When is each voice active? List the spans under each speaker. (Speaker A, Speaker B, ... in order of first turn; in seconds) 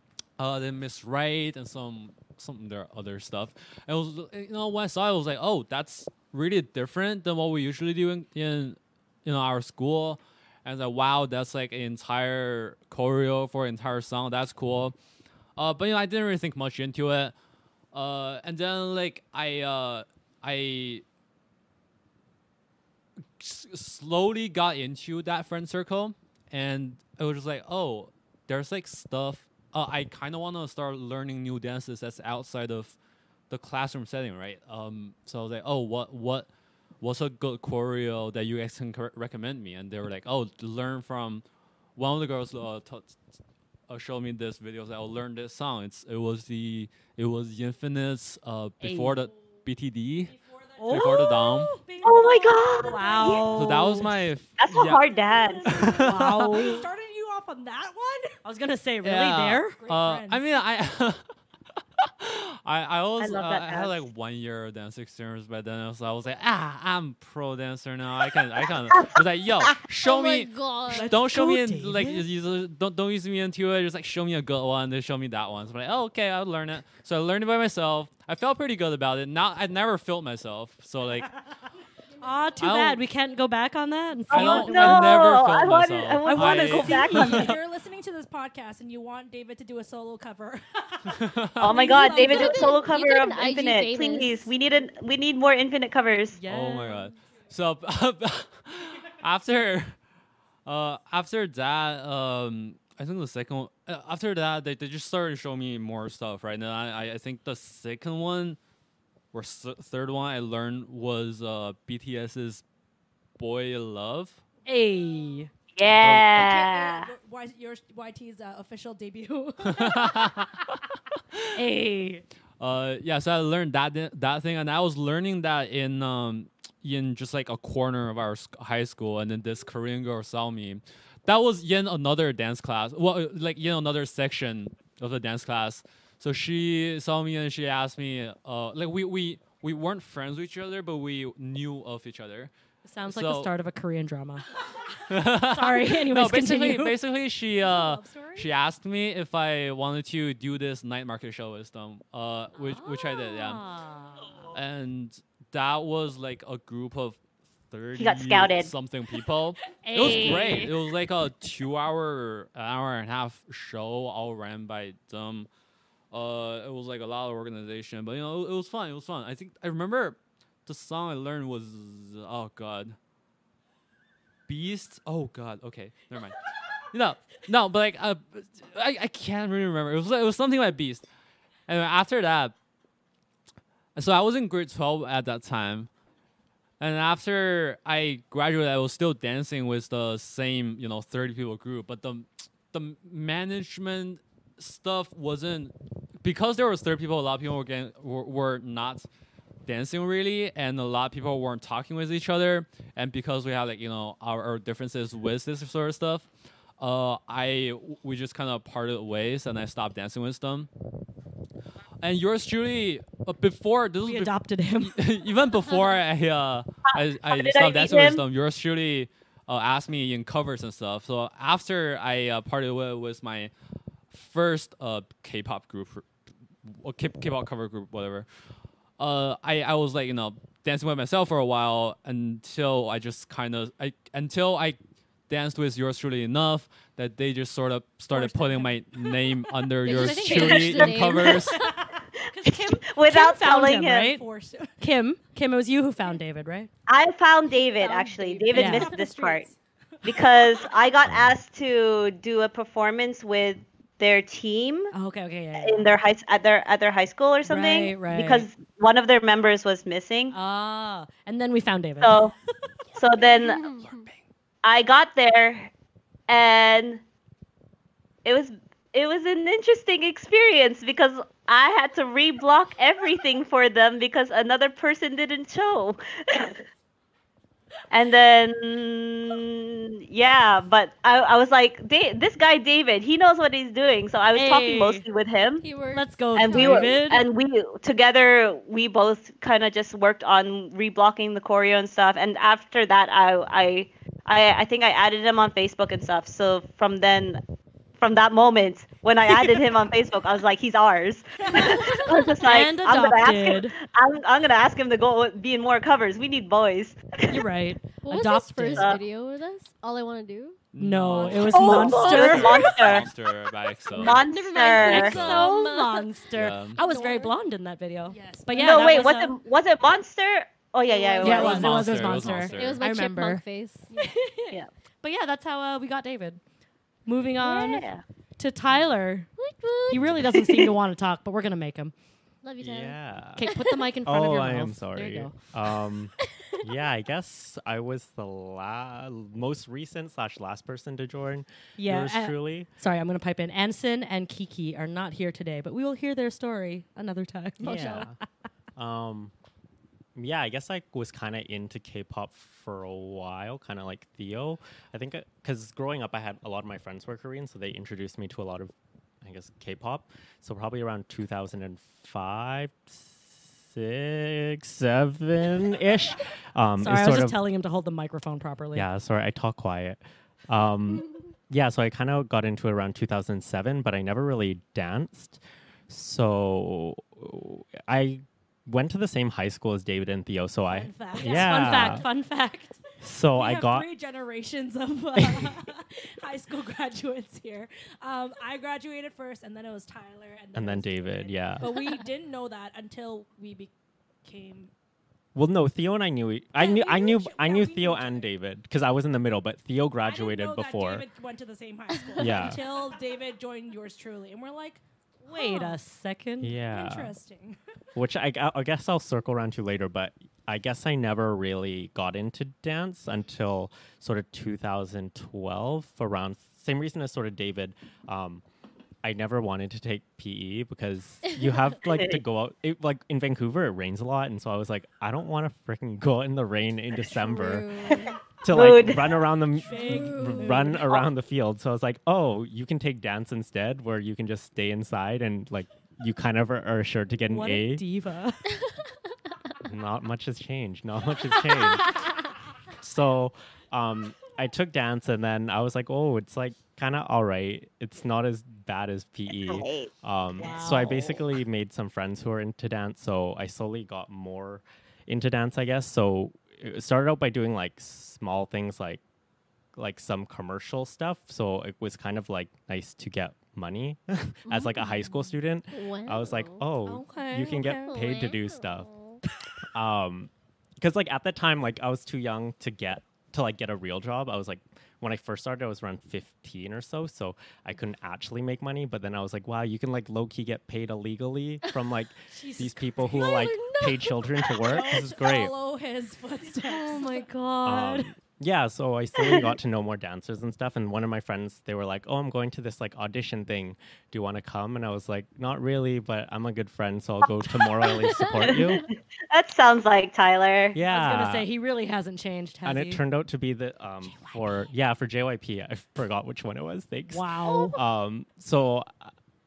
Speaker A: 0.4-14.9, 15.6-17.4, 17.9-21.0, 23.4-33.0, 33.5-36.5, 37.0-41.4, 42.0-43.2, 43.9-50.4, 50.9-51.8, 53.5-55.0, 55.7-56.6, 59.0-61.2, 62.0-81.3, 82.6-83.0, 84.3-87.2, 91.1-92.0, 96.5-100.0, 100.7-108.6, 109.3-112.6, 113.4-114.4, 116.0-116.4, 119.6-121.5, 122.6-142.5, 143.1-143.5, 145.1-153.6, 154.5-165.5, 166.1-173.0, 174.5-181.1, 181.7-182.6, 183.9-185.9, 186.8-199.1, 199.7-206.3, 206.8-210.7, 212.0-223.5, 224.1-226.1, 226.7-228.3, 229.0-241.6, 263.8-264.1, 310.7-314.2, 314.9-315.5, 316.3-316.8, 321.3-322.8
Speaker B: 48.8-49.2, 50.8-51.7, 52.8-54.2, 55.9-56.9, 58.4-59.8, 70.9-72.2, 82.2-85.2, 86.2-87.6, 96.4-97.1, 114.7-115.5, 121.5-122.2, 142.9-144.5, 145.4-147.0, 152.6-154.5, 159.8-160.8, 214.1-215.0, 238.1-238.7, 239.8-241.3, 242.3-244.2, 244.8-246.7, 248.5-248.9, 254.9-256.0, 257.4-258.5, 260.3-262.3, 284.4-285.1, 285.9-287.2, 302.4-303.8, 307.3-309.0, 310.8-312.9, 314.8-319.4, 321.2-323.4, 324.0-326.4, 327.1-327.9, 328.4-329.3, 329.9-331.9, 333.4-335.4, 341.8-348.2, 366.8-368.9, 381.2-382.8, 405.3-406.6, 437.3-438.4, 450.4-451.2, 466.9-467.8, 482.3-483.3, 486.6-488.1, 500.8-503.0, 504.1-504.4, 507.1-507.8
Speaker C: 50.3-54.0, 54.9-58.4, 59.8-60.4, 86.8-92.8, 116.3-120.3, 147.6-148.5, 244.0-244.7, 247.8-250.7, 311.1-312.5, 315.3-315.6, 316.8-317.3, 318.1-319.1, 323.9-324.2, 380.7-382.1, 383.4-393.7, 394.2-394.7, 396.6-398.3, 400.0-405.8, 406.6-407.6, 429.6-430.8, 466.9-467.9, 484.6-487.2
Speaker D: 52.0-53.5, 54.6-55.7, 63.2-64.0, 68.9-69.2, 84.3-87.5, 91.6-96.4, 115.8-117.1, 158.0-158.7, 216.9-218.2, 240.3-241.3, 242.4-244.1, 246.9-249.5, 250.1-254.9, 255.6-260.4, 262.0-262.3, 263.0-263.6, 264.6-265.7, 266.3-267.0, 268.2-276.6, 277.9-285.6, 286.4-297.4, 298.0-307.4, 311.5-313.1, 313.9-315.2, 318.6-322.2, 327.4-328.0, 330.4-330.7, 421.8-422.2, 428.5-429.2, 449.3-449.9, 489.2-489.5, 498.4-500.8
Speaker E: 70.0-71.1, 92.2-94.5, 239.8-241.7, 263.2-264.1, 285.6-287.0, 301.7-302.1, 308.0-310.6, 314.0-316.0, 316.8-317.3, 320.9-321.5, 322.3-323.9, 329.4-330.1, 332.4-333.8, 427.1-428.2, 429.7-430.7, 464.5-464.9, 465.7-466.6, 467.8-469.2, 483.0-484.8, 498.0-498.8
Speaker F: 329.9-330.4, 332.6-333.5, 334.0-342.7, 347.6-348.2, 348.8-349.3, 350.1-358.7, 359.2-367.4, 368.8-382.1, 383.0-383.9, 385.2-385.6, 390.6-391.7, 395.4-401.1, 402.2-402.6, 406.4-407.1, 408.0-418.4, 419.0-427.8, 428.4-437.9, 439.6-442.0, 442.7-459.0, 459.8-468.9, 469.7-485.5, 487.6-498.8, 500.7-501.5, 502.6-509.1